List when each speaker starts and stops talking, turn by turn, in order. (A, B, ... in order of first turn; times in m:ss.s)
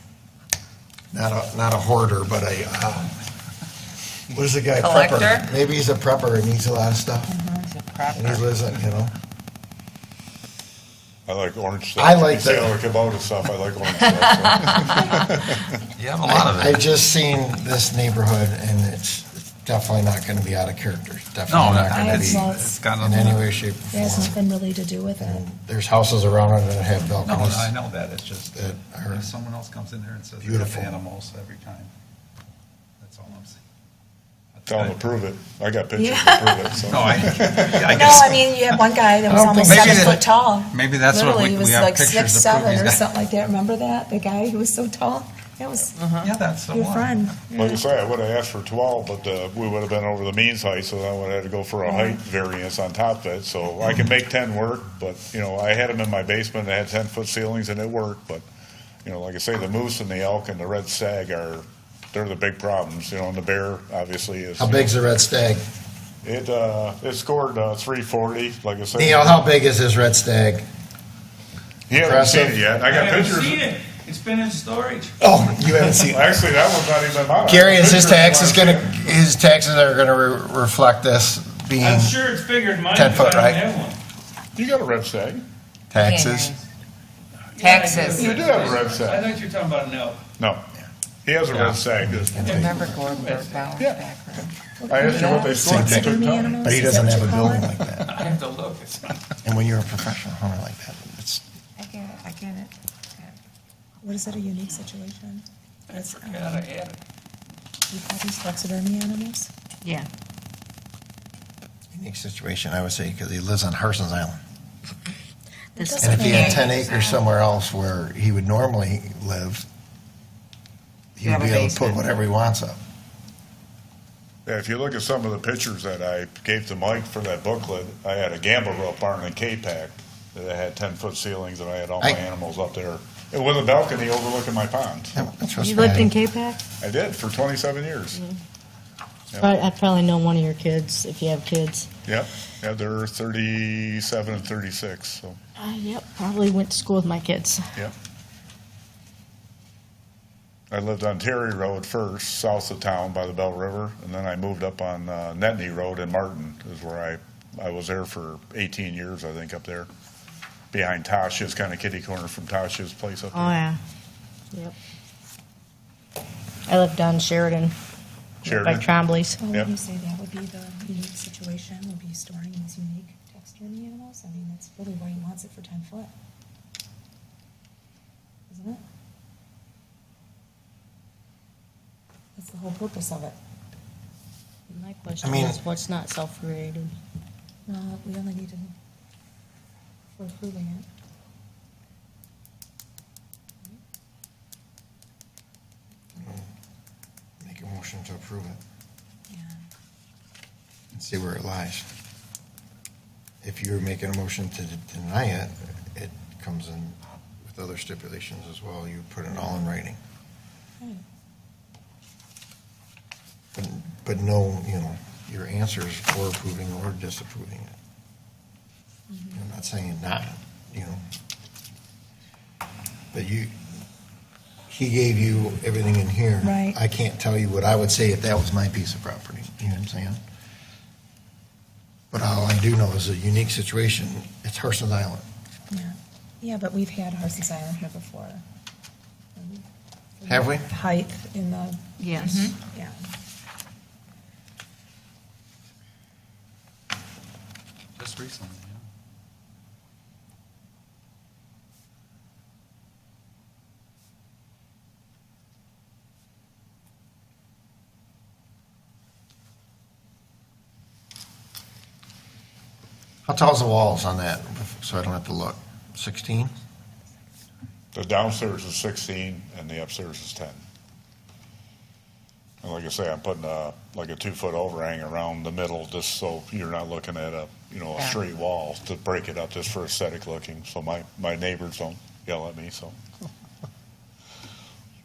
0:01.1-0:03.2 A
0:04.3-0:07.4 A
0:04.8-0:05.5 B
0:07.4-0:07.6 C
0:07.5-0:08.4 B
0:08.1-0:09.1 A
0:11.3-0:15.6 D
0:12.0-0:12.8 A
0:16.0-0:16.8 E
0:16.2-0:24.4 A
0:21.5-0:23.5 E
0:21.8-0:23.4 C
0:23.9-0:25.4 C
0:25.2-0:27.7 A
0:27.2-0:31.9 E
0:28.5-0:29.3 A
0:30.4-0:31.0 A
0:33.0-0:33.6 E
0:34.5-0:35.1 E
0:34.7-0:37.9 D
0:36.0-0:36.8 C
0:36.7-0:38.9 E
0:37.8-0:46.0 C
0:39.3-0:40.2 B
0:39.6-0:43.0 E
0:46.0-0:46.3 B
0:46.2-0:47.2 E
0:46.7-0:47.8 C
0:47.5-0:58.4 D
0:51.8-0:52.2 C
0:59.0-1:04.9 D
1:04.6-1:05.6 A
1:06.2-1:09.4 D
1:08.9-1:10.6 A
1:11.9-1:13.7 D
1:11.9-1:12.7 A
1:12.8-1:15.1 F
1:15.2-1:16.4 A
1:16.1-1:19.2 D
1:17.4-1:22.2 A
1:21.8-1:24.0 F
1:22.9-1:23.6 A
1:24.5-1:25.4 D
1:25.9-1:26.5 A
1:25.9-1:26.6 B
1:27.5-1:30.2 F
1:27.6-1:28.7 B
1:28.2-1:28.5 C
1:28.2-1:29.3 D
1:30.4-1:30.6 D
1:31.2-1:32.4 D
1:31.6-1:33.0 A
1:32.4-1:33.9 F
1:32.4-1:35.5 B
1:34.8-1:37.7 C
1:34.9-1:37.0 D
1:35.5-1:38.2 A
1:38.0-1:39.3 F
1:38.2-1:38.8 E
1:39.4-1:41.4 A
1:41.8-1:43.4 B
1:44.0-1:45.4 C
1:45.9-1:47.0 F
1:46.1-1:46.7 C
1:47.9-1:49.5 C
1:51.9-1:54.4 A
1:55.8-1:56.7 G
1:55.8-1:57.0 C
1:56.0-1:59.6 A
1:56.9-1:57.1 B
2:01.2-2:02.8 A
2:01.2-2:02.1 B
2:04.4-2:15.2 D
2:15.1-2:16.1 A
2:15.6-2:16.6 G
2:16.8-2:18.2 D
2:18.1-2:18.4 G
2:19.3-2:19.6 D
2:19.3-2:21.9 G
2:22.0-2:25.4 D
2:25.6-2:27.6 G
2:30.7-2:39.9 D
2:40.7-2:43.6 D
2:43.3-2:43.8 G
2:46.7-2:47.7 G
2:48.4-2:49.4 G
2:48.4-2:48.9 D
2:49.4-2:56.1 C
2:58.5-2:58.8 C
3:02.4-3:03.4 C
3:04.7-3:06.9 G
3:05.2-3:05.6 A
3:07.7-3:08.7 C
3:10.2-3:10.9 C
3:16.1-3:16.5 A
3:17.4-3:18.6 A
3:19.3-3:19.6 C
3:20.9-3:21.9 A
3:23.4-3:30.0 A
3:33.5-3:37.7 A
3:39.1-3:39.4 C
3:39.3-3:41.0 A
3:43.1-3:43.5 A
3:44.7-3:50.2 A
3:46.4-3:46.8 C
3:52.1-3:55.2 A
3:55.7-3:58.4 C
3:59.4-3:59.6 C
4:00.2-4:03.0 C
4:00.3-4:00.6 A
4:02.0-4:02.5 G
4:08.0-4:08.8 E
4:23.2-4:26.5 A
4:27.9-4:30.6 D
4:32.6-4:43.0 D